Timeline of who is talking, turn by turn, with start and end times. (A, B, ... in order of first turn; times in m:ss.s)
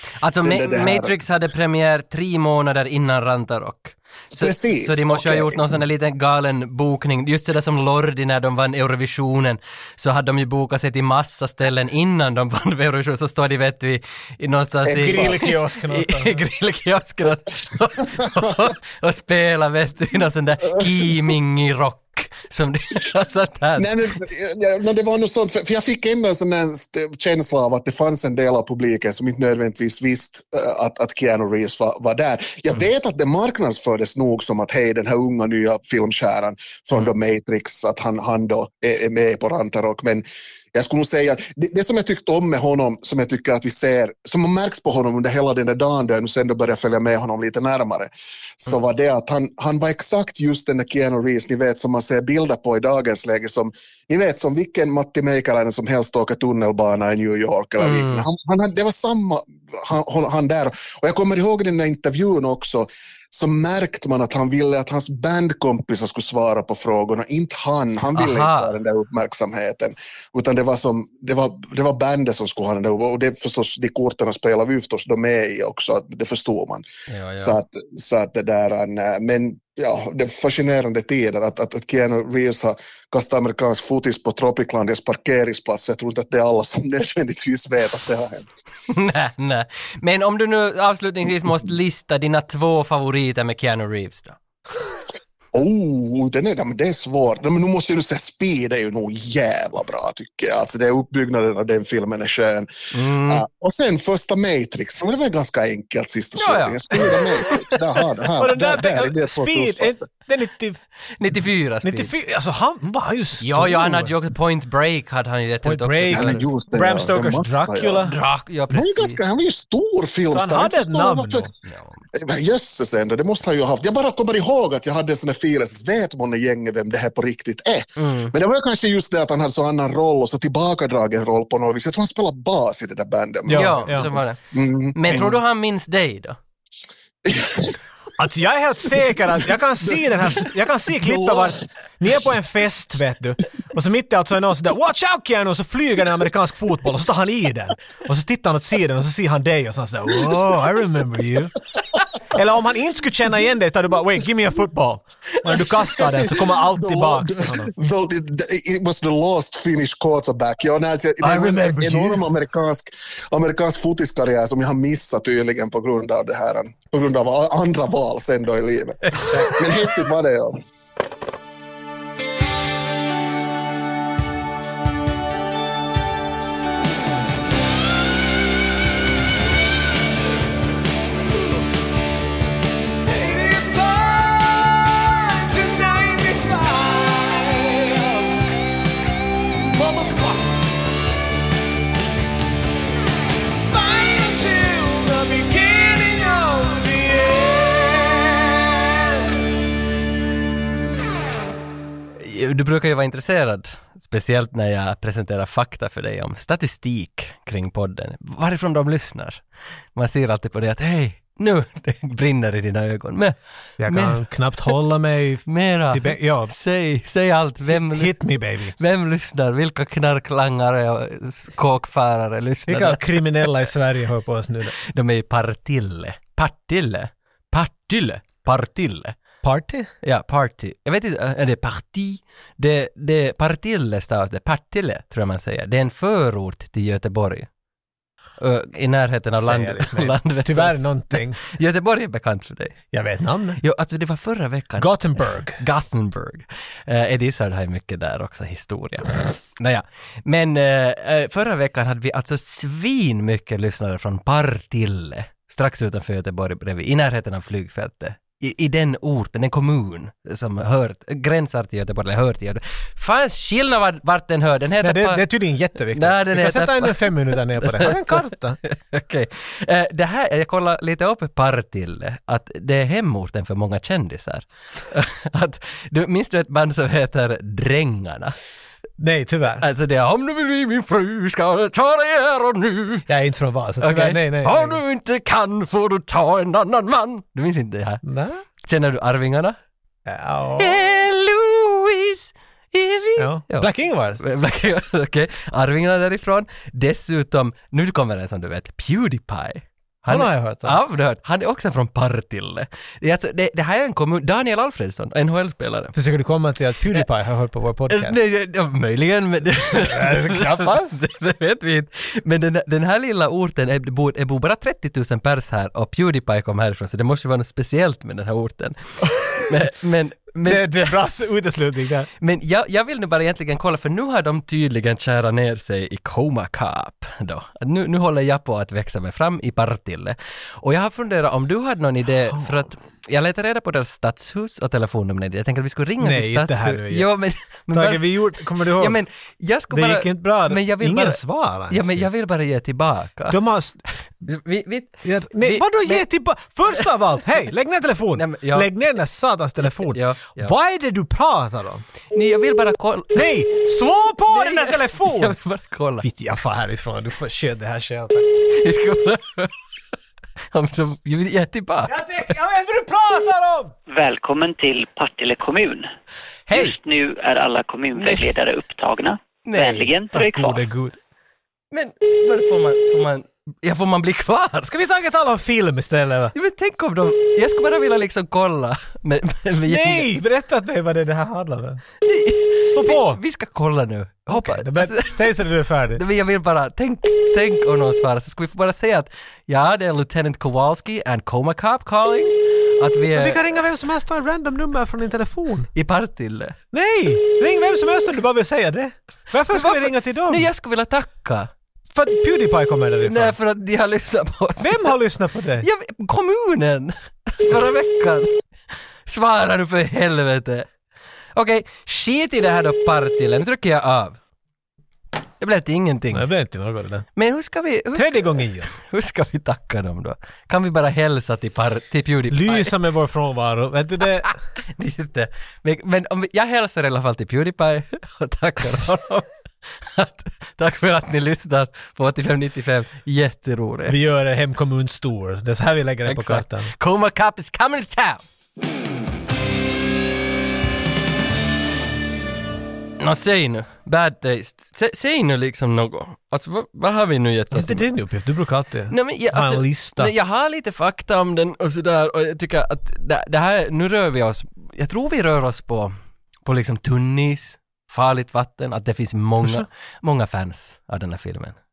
0:00.2-0:23.9 A
0:00.4-0:01.2 B
0:04.3-0:05.8 B
0:14.9-0:15.4 B
0:15.0-0:16.4 C
0:18.3-0:18.6 B
0:20.8-0:21.1 B
0:23.8-1:16.8 B
0:57.8-0:58.2 A
1:08.2-1:08.8 A
1:17.1-1:17.6 A
1:17.4-1:28.5 B
1:28.9-1:34.4 A
1:35.5-1:50.1 B
1:42.9-1:43.4 A
1:46.4-1:47.8 A
1:48.4-1:50.8 C
1:51.2-1:52.1 A
1:51.8-1:54.1 C
1:53.4-1:56.5 A
1:55.6-1:58.2 C
1:56.1-1:58.2 B
1:58.1-1:59.2 A
1:58.7-2:01.5 B
2:00.3-2:01.5 C
2:01.7-2:02.0 A
2:02.1-2:15.4 B
2:08.0-2:08.3 A
2:13.5-2:14.1 C
2:13.5-2:14.4 A
2:14.9-2:16.4 A
2:17.2-2:17.8 B
2:18.2-2:31.6 C
2:20.4-2:21.6 B
2:32.3-2:37.8 C
2:35.5-2:50.6 B
2:41.2-2:42.3 C
2:49.1-2:49.5 C
3:03.1-3:08.5 C
3:09.6-3:10.8 C
3:13.7-3:19.4 C
3:22.2-3:29.4 A
3:29.9-3:34.7 A
3:33.8-3:36.5 C
3:35.5-3:38.2 A
3:37.7-3:38.8 C
3:38.8-3:43.5 A
3:42.7-3:44.8 C
3:44.8-3:49.2 A
3:49.4-3:49.9 C
3:50.0-3:57.5 A
3:58.4-4:02.8 A
3:59.4-4:01.4 C
4:02.9-4:03.6 C
4:03.6-4:25.2 A
4:04.8-4:05.6 C
4:24.8-4:28.6 C
4:25.9-4:38.4 A
4:39.0-4:39.6 C
4:39.6-4:43.1 A
4:43.1-4:44.8 C
4:43.8-4:48.0 A
4:48.0-4:48.4 C
4:48.6-4:49.6 A
4:50.1-4:50.9 C
4:50.6-5:06.0 A
4:53.2-4:54.2 C
5:00.1-5:00.8 C
5:05.9-5:08.2 C
5:07.9-5:20.9 A
5:09.8-5:11.0 C
5:19.0-5:19.6 C
5:20.4-5:22.1 C
5:22.2-5:43.4 A
5:36.0-5:37.1 C
5:37.7-5:39.0 C
5:39.7-5:42.1 C
5:43.3-5:43.8 C
5:44.2-5:46.1 A
5:45.0-5:51.8 C
5:48.2-5:48.7 A
5:49.8-5:50.5 A
5:52.1-5:53.3 A
5:53.1-5:55.4 C
5:54.3-5:56.1 A
5:56.0-5:58.2 C
5:58.5-5:59.6 A
6:00.5-6:02.0 A
6:01.9-6:03.7 C
6:03.9-6:05.9 D
6:06.5-6:06.7 A
6:06.5-6:10.6 D
6:07.9-6:08.3 A
6:09.4-6:09.9 A
6:10.1-6:11.0 C
6:11.7-6:14.7 A
6:14.7-6:16.3 C
6:16.3-6:20.1 A
6:19.7-6:21.8 C
6:22.0-6:25.3 A
6:22.6-6:23.2 C
6:24.3-6:26.0 C
6:26.0-6:33.4 A
6:33.1-6:35.7 C
6:35.8-6:36.6 A
6:36.7-6:40.5 C
6:39.5-6:41.5 A
6:41.9-6:43.4 C
6:43.0-6:45.0 A
6:44.6-6:45.7 C
6:45.6-6:48.4 A
6:49.1-6:50.7 A
6:51.4-6:54.2 A
6:55.4-6:56.3 A
6:56.1-6:57.1 C
6:57.2-7:02.7 A
6:57.9-6:58.7 C
7:02.3-7:04.3 C
7:04.2-7:14.0 A
7:13.9-7:16.7 C
7:16.1-7:18.2 A
7:23.0-7:27.9 A
7:27.5-7:30.1 C
7:28.9-7:35.9 A
7:36.4-7:41.6 A
7:39.4-7:39.7 C